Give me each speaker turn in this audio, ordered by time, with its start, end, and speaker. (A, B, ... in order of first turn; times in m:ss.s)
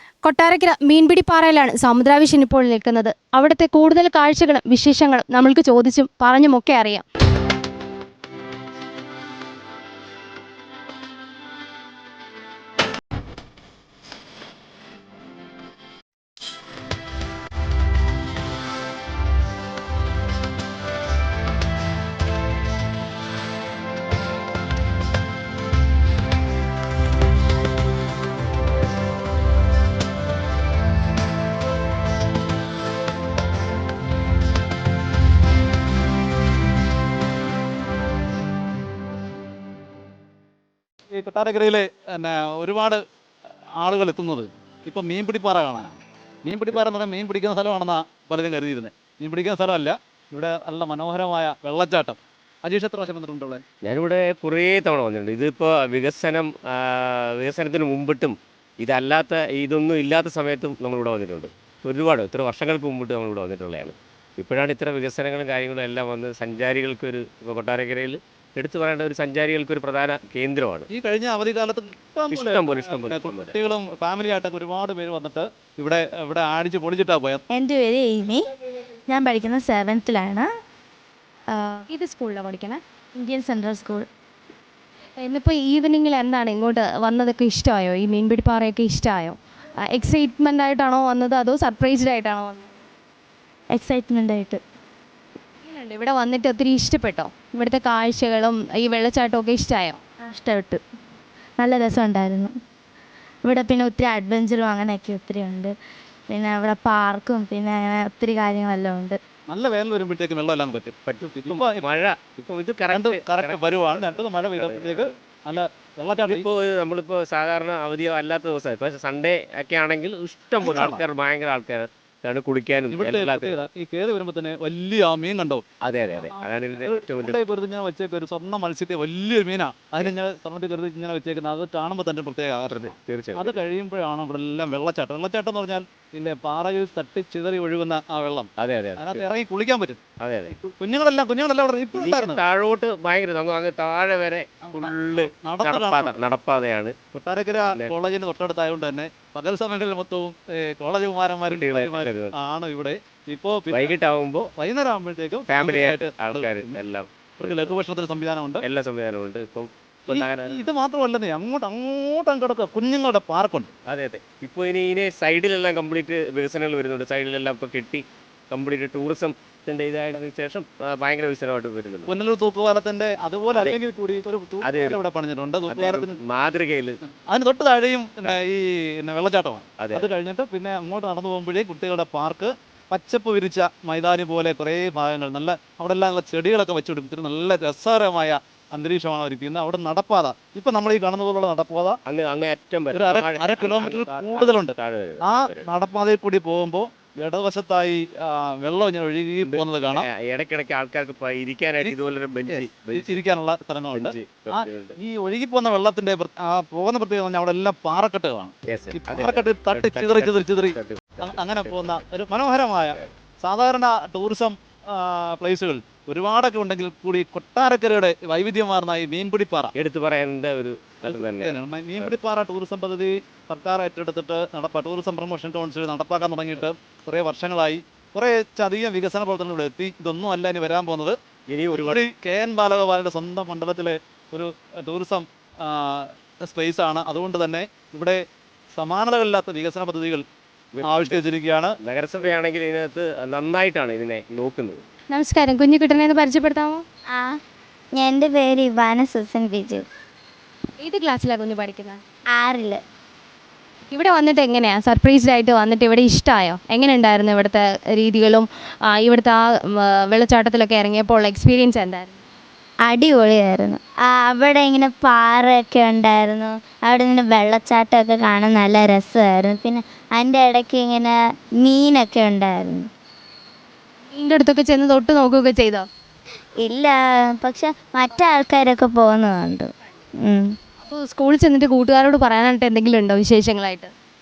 0:00.2-0:07.0 A
0:41.1-0:43.0 B
0:43.8-0:53.6 B
0:53.8-1:10.9 C
1:10.9-1:17.4 B
1:12.3-1:13.5 C
1:17.6-1:18.4 D
1:19.1-1:20.4 D
1:21.9-1:22.8 A
1:23.2-1:24.0 D
1:25.2-1:29.4 A
1:29.9-1:32.7 A
1:33.8-1:34.4 D
1:35.7-1:40.0 A
1:40.3-1:40.8 D
1:41.6-1:42.1 D
1:43.5-1:45.7 D
1:46.4-1:49.1 D
1:49.5-1:51.8 B
1:51.1-1:53.6 C
1:52.9-1:56.4 B
1:54.6-1:54.9 C
1:56.2-2:03.6 C
2:00.6-2:01.0 B
2:02.9-2:05.6 B
2:05.8-2:07.4 C
2:06.3-2:22.4 B
2:12.7-2:13.6 C
2:18.6-2:19.2 C
2:20.2-2:20.5 C
2:21.9-2:26.9 C
2:24.7-2:26.1 B
2:27.1-2:33.9 B
2:31.6-2:32.3 C
2:33.7-2:34.5 C
2:34.6-2:36.8 B
2:35.5-2:37.1 C
2:37.4-2:38.7 B
2:38.6-2:40.6 C
2:40.1-2:43.7 B
2:43.9-2:52.1 C
2:52.1-2:56.2 B
2:54.6-2:55.0 C
2:55.7-2:57.0 C
2:57.3-3:12.0 B
2:59.8-3:00.1 C
3:12.1-3:15.6 C
3:12.9-3:20.1 B
3:19.4-3:23.1 C
3:21.8-3:39.7 B
3:23.9-3:25.0 C
3:28.7-3:31.7 C
3:39.8-3:42.1 C
3:41.1-3:51.2 B
3:51.5-3:52.0 C
3:51.8-3:58.2 B
3:58.8-4:00.2 B
4:00.8-4:01.2 C
4:00.8-4:01.7 B
4:01.8-4:04.8 C
4:05.1-4:06.8 A
4:07.1-4:07.4 D
4:07.9-4:09.8 D
4:10.8-4:12.0 A
4:12.4-4:12.8 D
4:13.9-4:22.2 A
4:22.9-4:32.9 D
4:34.1-4:35.9 A
4:36.6-4:39.7 D
4:40.2-4:40.5 D
4:40.9-4:43.9 A